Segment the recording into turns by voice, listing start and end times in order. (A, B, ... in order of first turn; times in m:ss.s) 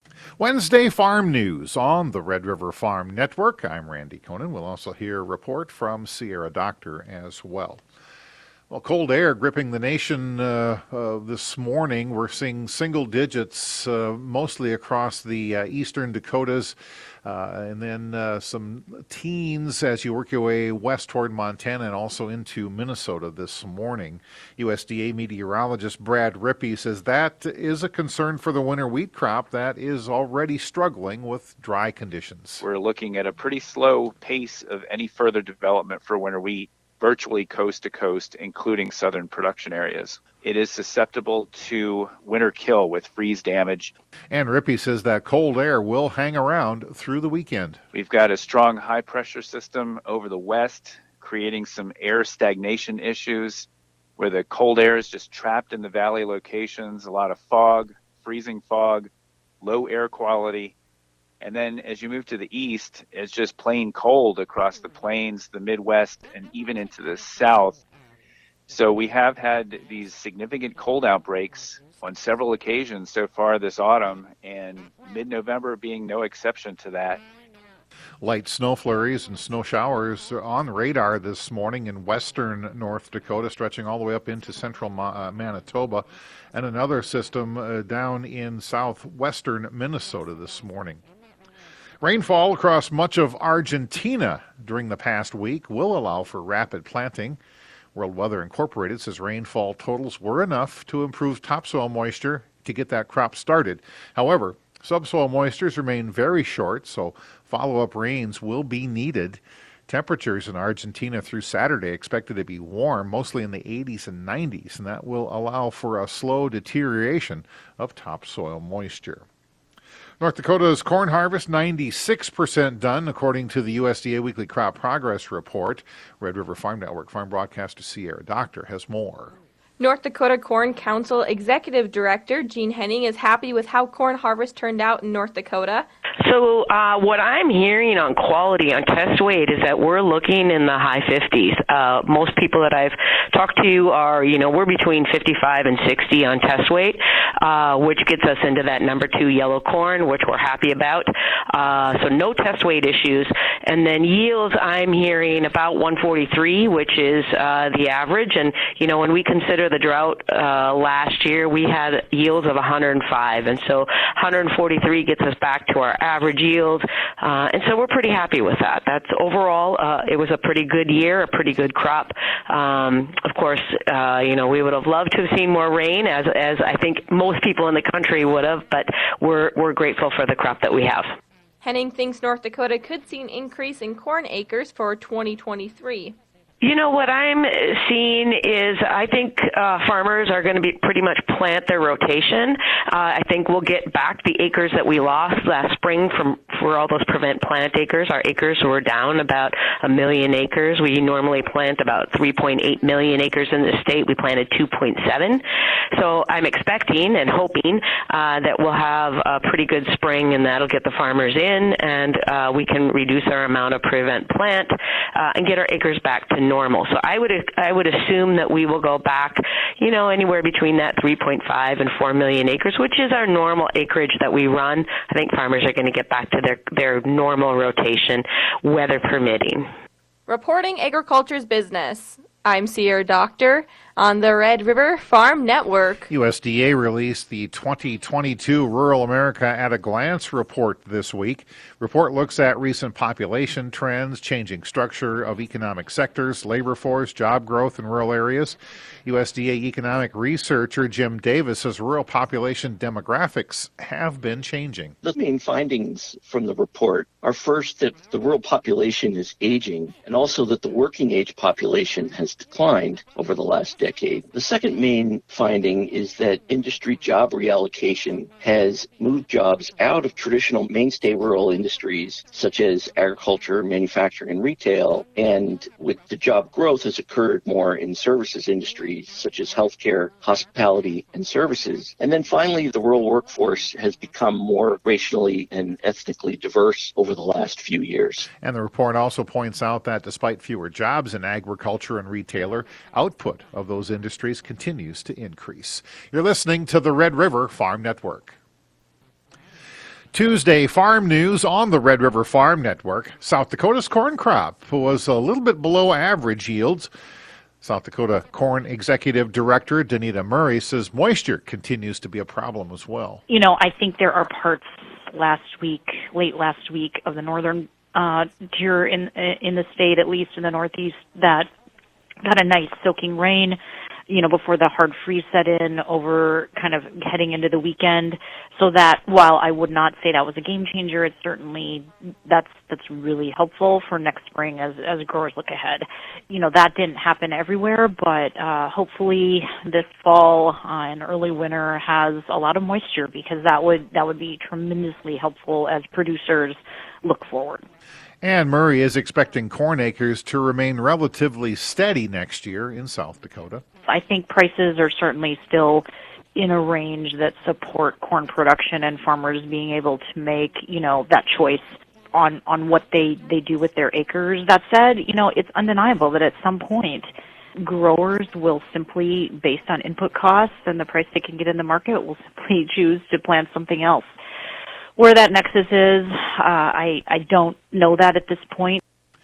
0:00.4-0:07.8 A
0:08.7-0:32.6 A
0:32.6-0:43.9 B
0:44.3-0:47.8 A
0:47.9-0:53.7 B
0:54.2-0:59.1 B
0:59.6-1:00.7 B
1:01.4-1:07.8 B
1:08.7-1:17.2 B
1:18.2-1:31.0 A
1:32.0-1:37.4 A
1:37.9-1:59.2 A
2:00.2-2:09.3 A
2:09.8-2:15.9 C
2:16.2-3:01.1 D
3:01.6-3:06.2 C
3:06.6-3:49.6 D
3:50.3-3:56.1 C
3:56.1-4:15.0 A
4:15.0-4:48.3 E
4:48.4-4:58.4 A
5:00.1-5:06.9 A
5:07.6-5:13.2 A
5:13.3-5:21.5 F
5:22.2-5:23.6 F
5:24.1-5:47.6 F
5:48.2-5:53.6 A
5:53.8-5:55.8 F
5:56.3-6:07.0 F
6:07.6-6:14.1 F
6:15.0-6:18.8 F